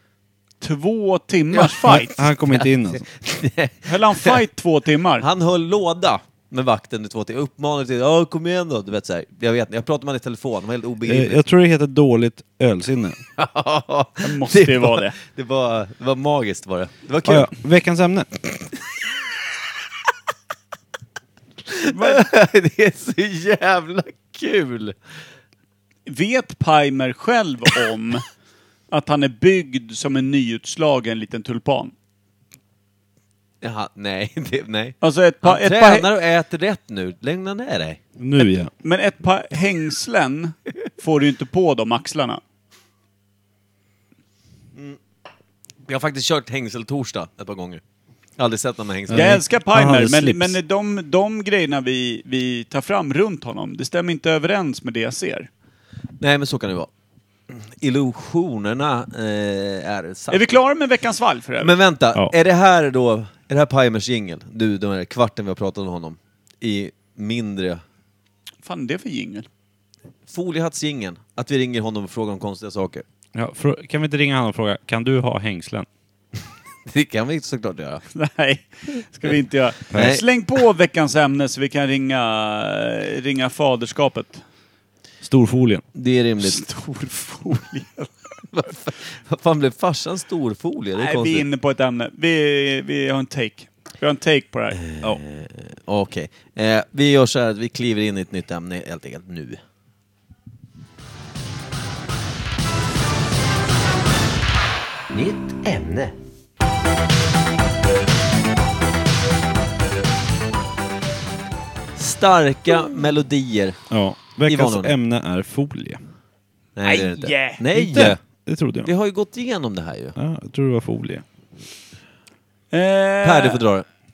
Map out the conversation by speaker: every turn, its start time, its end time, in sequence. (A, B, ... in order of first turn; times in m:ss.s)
0:00.6-0:02.2 A
0:01.5-0:04.4 B
0:01.8-0:03.0 C
0:03.8-0:05.2 A
0:05.2-0:11.4 B
0:11.0-0:13.2 C
0:13.4-0:17.5 B
0:14.2-0:15.2 A
0:17.2-0:18.3 C
0:21.7-0:24.9 B
0:21.8-0:22.2 A
0:26.1-0:28.2 A
0:28.9-0:31.9 A
0:33.6-0:38.0 B
0:35.0-0:36.1 A
0:38.2-0:38.7 C
0:38.8-0:42.4 A
0:45.9-0:47.8 B
0:48.4-0:49.4 B
0:49.1-0:50.6 C
0:49.1-0:55.5 A
0:56.2-0:56.9 B
0:57.5-1:00.5 B
1:00.3-1:01.8 A
1:01.6-1:07.8 B
1:08.6-1:09.5 A
1:10.3-1:13.0 B
1:13.3-1:15.9 C
1:16.9-1:18.0 B
1:18.1-1:24.4 A
1:19.9-1:20.2 C
1:19.9-1:20.2 B
1:25.2-1:25.8 C
1:25.9-1:26.6 B
1:26.4-1:28.1 A
1:28.5-1:31.4 B
1:31.0-1:34.8 A
1:34.8-1:39.6 B
1:45.1-1:46.1 B
1:52.0-1:53.8 B
1:53.9-1:56.0 C
1:54.4-1:54.9 B
1:56.8-1:58.2 B
1:56.8-1:57.6 A
1:57.7-1:58.9 C
1:58.8-2:00.2 B
2:00.2-2:01.2 C
2:02.7-2:03.6 A
2:03.2-2:03.8 B